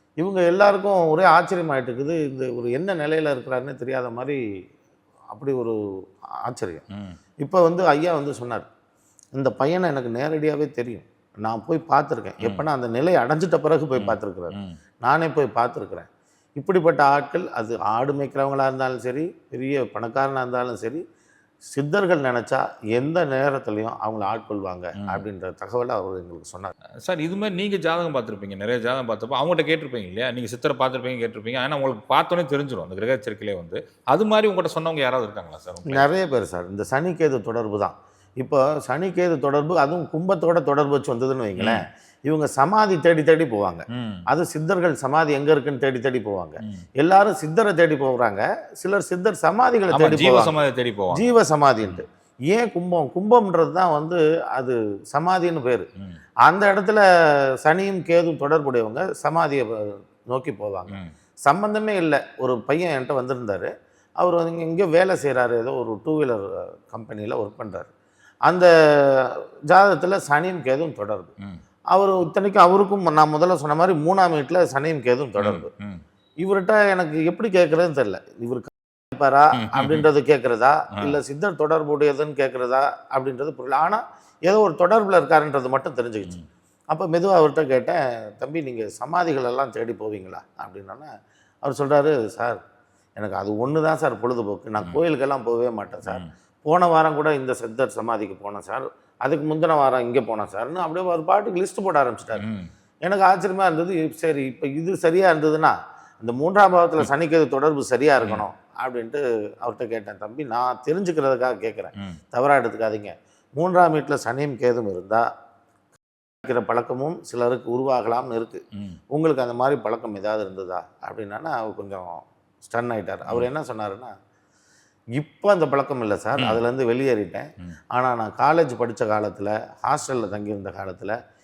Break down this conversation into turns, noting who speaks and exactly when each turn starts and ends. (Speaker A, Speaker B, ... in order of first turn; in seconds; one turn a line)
Speaker A: 0.2-4.4
Speaker A: 5.3-5.8
Speaker A: 6.5-6.8
Speaker A: 7.4-8.7
Speaker A: 9.3-21.0
Speaker B: 14.0-14.8
Speaker A: 21.7-26.7
Speaker B: 27.0-36.0
Speaker A: 35.9-50.5
Speaker B: 43.9-44.2
Speaker B: 49.9-51.2
Speaker A: 51.1-55.9
Speaker A: 56.5-57.0
Speaker A: 57.6-59.8
Speaker A: 60.3-61.0
Speaker A: 61.5-67.9
Speaker A: 69.2-71.3
Speaker A: 71.9-75.7
Speaker B: 75.4-76.0
Speaker A: 76.4-86.4
Speaker B: 79.6-80.1
Speaker A: 86.9-91.1
Speaker A: 91.6-92.6
Speaker A: 93.2-102.4
Speaker B: 102.4-102.7
Speaker A: 103.0-115.2
Speaker A: 116.4-124.1
Speaker A: 125.2-131.2